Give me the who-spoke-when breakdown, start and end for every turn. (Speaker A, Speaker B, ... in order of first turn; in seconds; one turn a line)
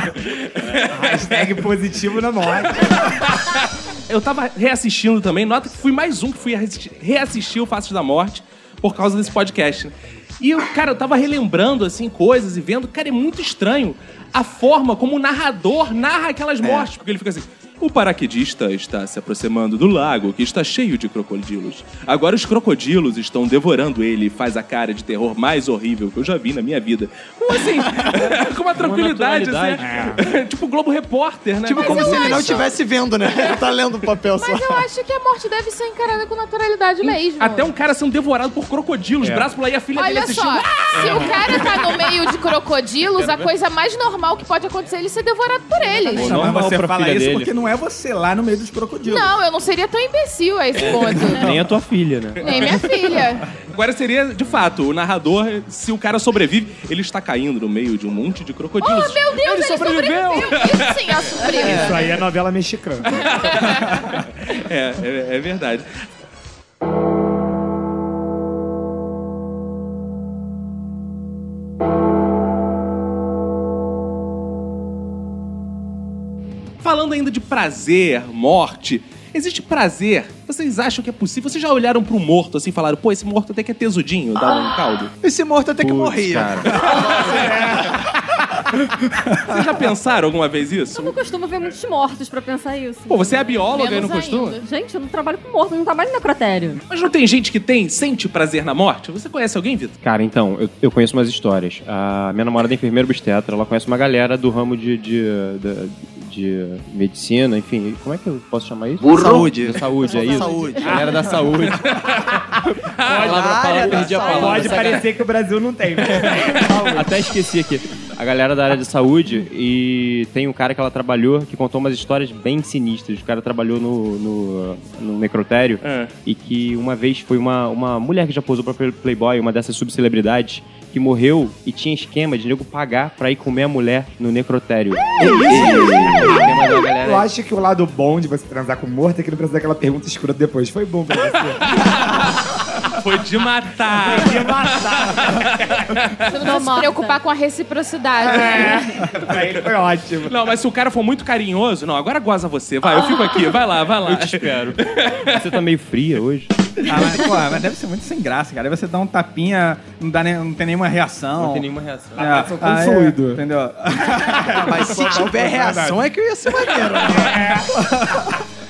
Speaker A: 0.3-1.4
Speaker B: 0.7-3.3
Speaker A: 3.2-32.6
Speaker C: 16.6-16.9
Speaker D: 28.1-30.2
Speaker B: 29.8-30.2
Speaker C: 31.6-34.9
Speaker E: 31.7-32.7
Speaker E: 34.3-37.7
Speaker A: 37.1-41.8
Speaker E: 40.0-46.5
Speaker D: 41.0-41.4
Speaker D: 43.2-43.5
Speaker F: 46.1-49.4
Speaker D: 46.1-47.5
Speaker E: 49.0-51.6
Speaker D: 51.3-52.5
Speaker E: 52.4-53.5
Speaker A: 52.4-52.8
Speaker A: 53.5-61.6
Speaker E: 58.8-62.1
Speaker C: 61.6-62.0
Speaker B: 61.6-63.5
Speaker A: 63.1-65.9
Speaker E: 63.4-64.0
Speaker A: 76.8-85.1
Speaker C: 85.2-87.5
Speaker D: 85.8-86.8
Speaker A: 86.9-87.9
Speaker B: 87.2-88.2
Speaker A: 89.4-91.2
Speaker G: 90.9-93.9
Speaker A: 93.1-94.6
Speaker E: 93.7-94.6
Speaker G: 94.6-96.8
Speaker A: 96.9-100.0
Speaker D: 100.0-112.1
Speaker C: 109.1-111.1
Speaker G: 110.0-111.1
Speaker A: 112.0-112.4
Speaker A: 113.0-114.2
Speaker B: 113.0-117.1
Speaker D: 113.0-115.0
Speaker C: 113.1-115.0
Speaker A: 116.2-116.6
Speaker D: 116.7-137.3
Speaker A: 125.8-126.1
Speaker C: 135.2-136.5
Speaker A: 135.3-136.0
Speaker B: 135.3-142.1
Speaker A: 141.7-146.3
Speaker B: 144.0-146.0
Speaker E: 146.3-149.1
Speaker G: 146.3-147.2
Speaker B: 148.2-150.4
Speaker A: 150.2-155.3
Speaker D: 154.0-156.6
Speaker F: 156.9-164.8
Speaker D: 161.4-162.5
Speaker B: 162.2-163.4
Speaker B: 164.2-166.1
Speaker C: 164.5-167.6
Speaker B: 166.9-168.4
Speaker F: 167.8-168.0